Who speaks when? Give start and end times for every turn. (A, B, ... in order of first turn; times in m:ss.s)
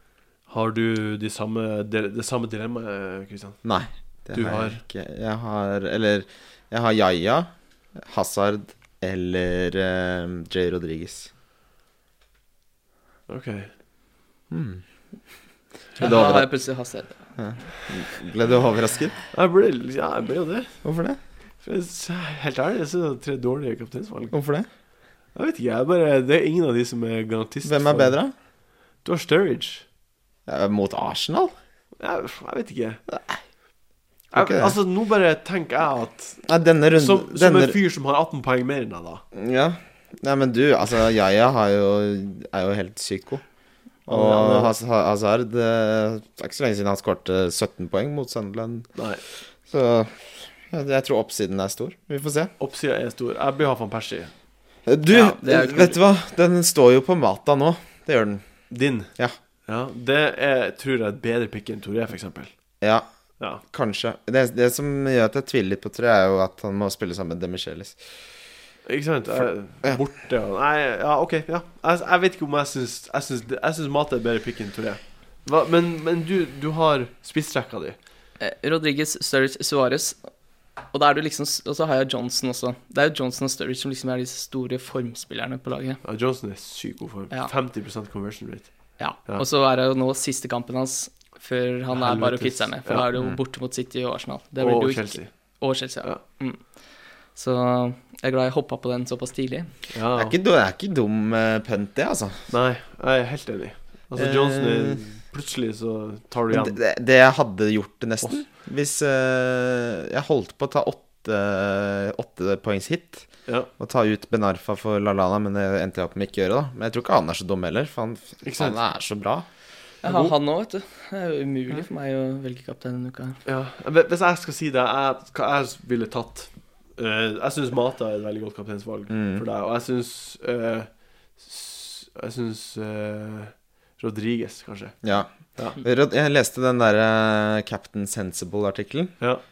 0:00.5-0:03.6 A
0:03.6-0:11.3 B
0:04.3-0:04.8 A
0:13.3-0:13.7 A
0:14.5-0:14.8 B
0:16.0-0:17.7 C
0:16.0-0:16.5 B
0:17.4-0:19.2 B
0:19.3-0:20.8 A
0:20.8-0:21.2 B
0:21.6-0:24.4 A
0:24.3-0:24.7 B
0:25.4-0:28.2 A
0:27.6-0:28.3 B
0:29.0-0:29.8 A
0:30.5-0:31.5 B
0:32.0-0:33.0 A
0:33.1-0:33.4 B
0:34.3-0:39.2 A
0:34.3-0:34.8 B
0:36.5-0:37.8 B
0:39.3-0:43.4 B
0:44.1-0:48.9 B
0:44.1-0:44.7 A
0:49.0-0:49.2 A
0:49.6-0:52.5 B
0:52.6-0:54.3 A
0:54.9-0:58.4 B
0:55.1-0:56.0 C
0:58.7-0:59.1 A
0:59.7-1:02.5 A
1:02.8-1:03.1 B
1:03.6-1:08.0 B
1:08.8-1:18.0 A
1:18.4-1:20.2 C
1:20.9-1:26.0 C
1:26.0-1:29.4 A
1:29.0-1:36.8 C
1:31.9-1:33.1 A
1:33.1-1:33.4 B
1:34.6-1:35.3 A
1:37.3-1:39.7 C
1:39.9-1:40.4 A
1:40.2-1:42.4 B
1:42.5-1:46.8 A
1:44.2-1:45.0 B
1:46.5-1:53.3 B
1:53.8-1:59.5 B
1:58.4-1:58.8 A
2:00.0-2:03.4 C
2:00.0-2:00.3 A
2:03.4-2:15.0 A
2:09.1-2:09.4 B
2:15.0-2:19.2 B
2:15.5-2:15.8 A